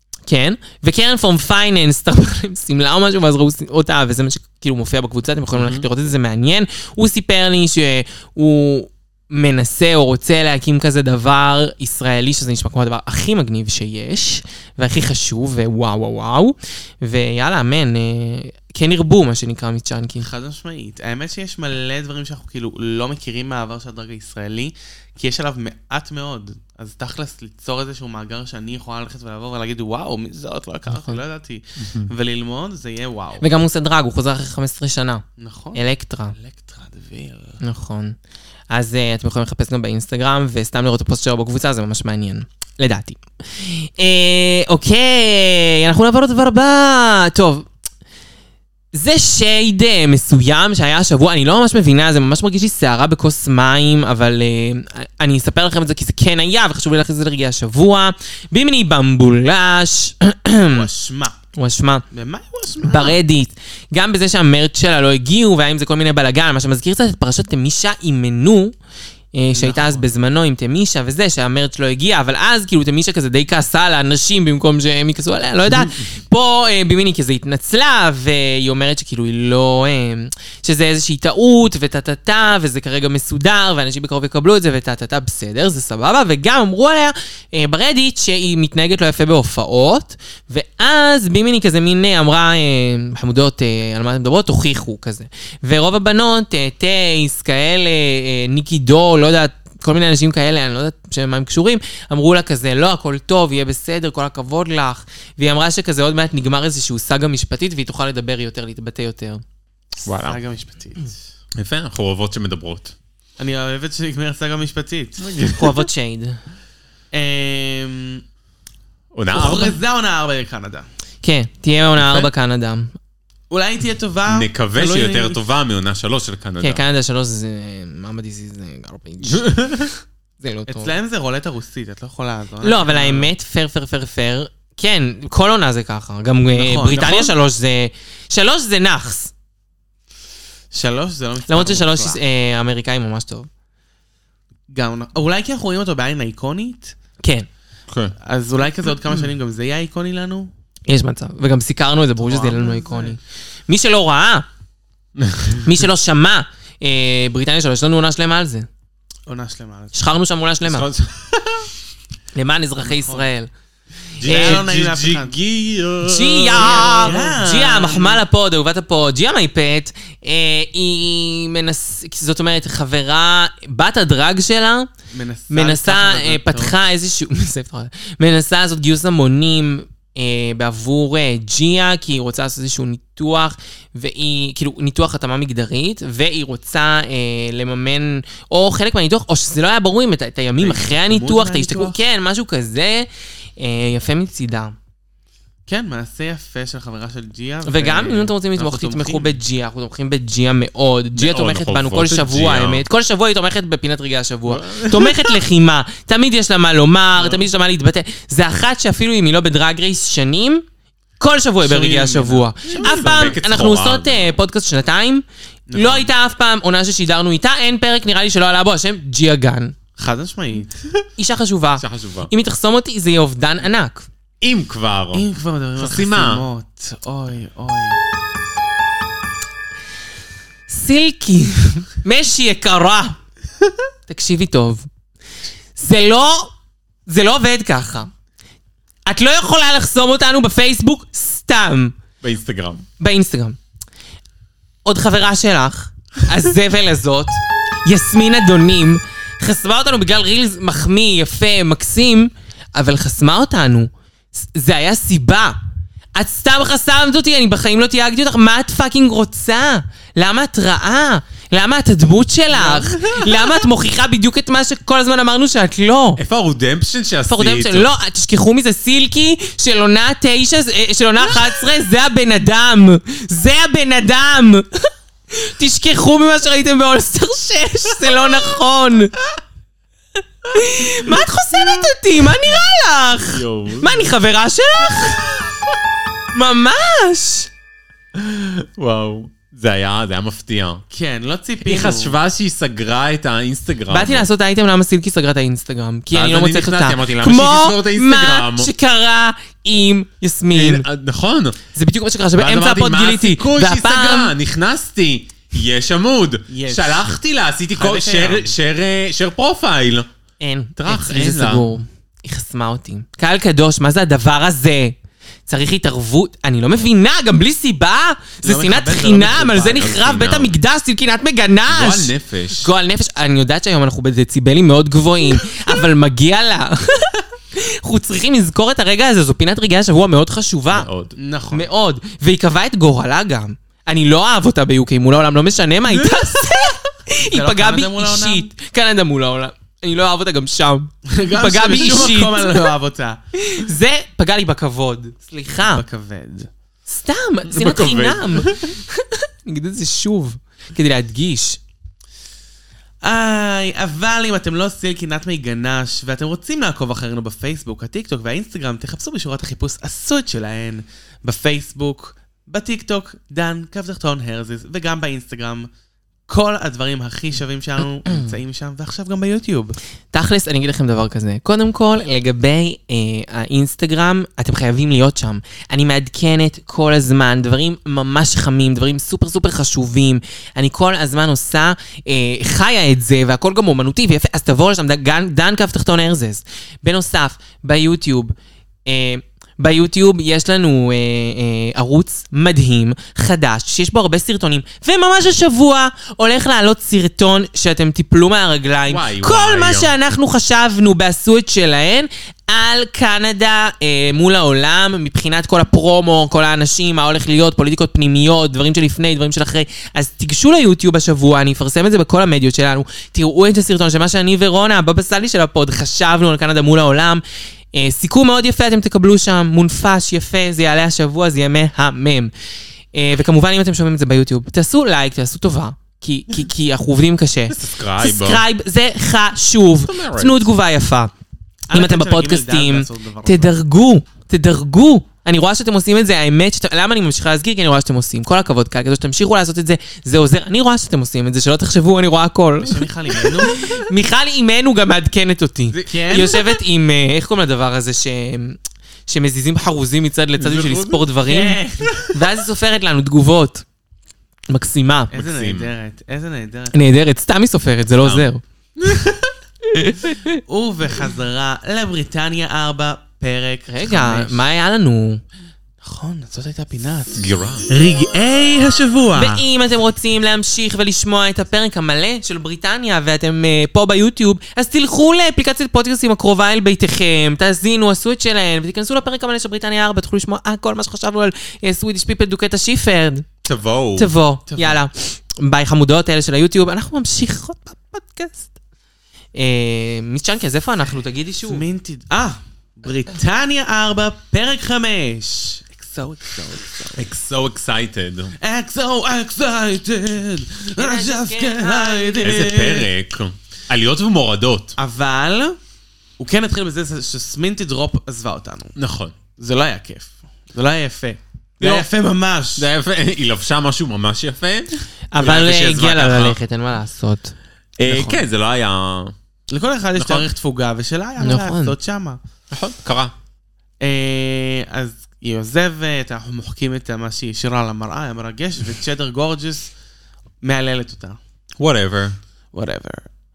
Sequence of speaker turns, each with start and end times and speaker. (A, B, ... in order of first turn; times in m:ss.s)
0:00.3-0:20.2 A
0:05.6-0:05.8 B
0:20.2-0:33.4 C
0:31.8-0:32.1 B
0:33.4-0:35.2 A
0:35.4-0:35.8 C
0:35.7-0:36.4 A
0:36.4-0:37.6 C
0:37.6-0:38.2 A
0:38.7-0:47.7 A
0:48.9-1:00.9 A
1:00.6-1:01.4 C
1:01.6-1:02.0 A
1:02.1-1:03.2 C
1:02.8-1:08.7 A
1:09.3-1:49.4 A
1:09.5-1:10.1 C
1:15.7-1:16.0 B
1:50.0-1:50.4 B
1:50.2-1:51.1 C
1:51.6-1:52.9 B
1:53.4-1:55.3 C
1:55.2-1:55.8 B
1:55.6-1:56.4 A
1:57.1-1:58.2 C
1:59.1-1:59.8 B
1:59.3-2:00.8 C
2:01.2-2:02.9 A
2:02.0-2:02.3 B
2:03.5-2:05.4 C
2:04.3-2:06.8 B
2:06.6-2:09.9 A
2:09.2-2:09.9 B
2:10.4-2:10.9 A
2:10.7-2:13.3 C
2:12.6-2:19.3 A
2:16.5-2:17.3 C
2:16.9-2:17.3 B
2:20.7-2:22.2 C
2:21.5-2:23.5 A
2:24.7-2:27.0 C
2:27.2-2:27.5 A
2:27.9-2:28.1 B
2:28.2-2:30.5 C
2:30.9-2:34.5 A
2:32.2-2:33.2 C
2:35.2-2:35.7 B
2:35.6-2:38.7 A
2:39.3-2:39.9 C
2:39.9-2:40.9 A
2:40.6-2:41.7 B
2:42.3-2:43.5 A
2:42.8-2:43.3 C
2:44.2-2:47.2 B
2:44.2-2:45.4 C
2:44.2-2:44.6 A
2:46.0-2:54.9 A
2:46.6-2:48.2 C
2:55.1-2:56.8 C
2:55.5-3:14.8 A
3:10.6-3:12.0 C
3:15.7-3:19.3 C
3:17.6-3:30.6 A
3:21.2-3:22.8 B
3:24.5-3:25.4 B
3:27.2-3:27.4 C
3:31.2-3:39.7 A
3:31.6-3:33.1 C
3:32.7-3:34.4 B
3:35.7-3:36.1 C
3:40.0-3:40.7 C
3:41.2-3:44.1 A
3:41.8-3:42.3 B
3:44.4-3:46.5 B
3:45.1-3:48.0 C
3:50.7-3:53.2 A
3:54.1-3:54.9 A
3:55.8-3:56.5 A
3:57.0-3:58.1 A
3:59.0-4:02.0 A
4:02.2-4:02.8 B
4:03.0-4:03.6 A
4:04.8-4:15.6 A
4:16.1-4:26.2 A
4:23.0-4:23.4 B
4:26.2-4:27.9 B
4:27.3-4:39.1 A
4:40.5-4:45.2 A
4:43.3-4:44.0 B
4:46.3-4:47.5 A
4:48.1-4:50.8 B
4:50.9-4:52.2 C
4:51.6-4:54.3 B
4:53.9-5:00.8 A
4:56.1-4:58.7 B
5:00.5-5:01.6 B
5:01.7-5:04.3 A
5:02.4-5:10.1 B
5:06.5-5:07.1 C
5:07.7-5:08.6 C
5:10.4-5:15.0 A
5:10.8-5:11.6 B
5:15.5-5:30.9 A
5:18.4-5:19.9 C
5:19.4-5:20.6 B
5:21.7-5:22.7 B
5:30.7-5:31.2 B
5:31.2-5:31.7 C
5:31.5-5:42.5 A
5:37.2-5:38.5 C
5:41.1-5:43.2 C
5:43.4-5:45.8 A
5:45.6-5:46.5 C
5:46.9-5:51.6 A
5:47.5-5:48.7 B
5:53.0-6:05.7 C
6:06.3-6:09.8 C
6:10.1-6:28.3 A
6:28.8-6:57.2 A
6:38.9-6:39.9 B
6:57.7-7:02.3 A
7:02.9-7:11.1 A
7:07.5-7:08.4 B
7:09.8-7:10.5 B
7:11.7-7:13.5 C
7:11.7-7:33.6 A
7:22.6-7:23.6 C
7:25.9-7:26.5 C
7:30.4-7:31.0 B
7:31.2-7:32.1 C
7:34.5-7:35.1 A
7:35.1-7:36.8 C
7:35.1-7:35.7 B
7:36.7-7:38.4 A
7:38.0-7:39.2 B
7:39.7-7:40.4 A
7:40.5-7:44.4 C
7:43.7-7:45.2 A
7:45.8-7:49.4 C
7:47.1-7:47.7 B
7:49.1-8:03.2 A
8:03.4-8:04.1 B
8:04.0-8:08.5 A
8:04.5-8:04.8 C
8:09.3-8:11.6 A
8:11.5-8:17.0 C
8:16.9-8:18.3 B
8:18.4-8:22.9 C
8:20.8-8:22.4 A
8:22.2-8:24.8 B
8:24.8-8:25.6 C
8:26.2-8:28.7 C
8:28.8-8:29.1 B
8:29.4-8:32.7 C
8:32.6-8:36.4 B
8:35.1-8:37.3 A
8:37.8-8:39.1 B
8:37.8-8:38.2 C
8:39.5-8:42.2 C
8:40.0-8:40.3 B
8:41.2-8:41.7 A
8:42.5-8:43.1 B
8:43.8-8:49.7 C
8:50.4-8:51.2 C
8:51.6-8:52.2 B
8:52.5-8:53.1 C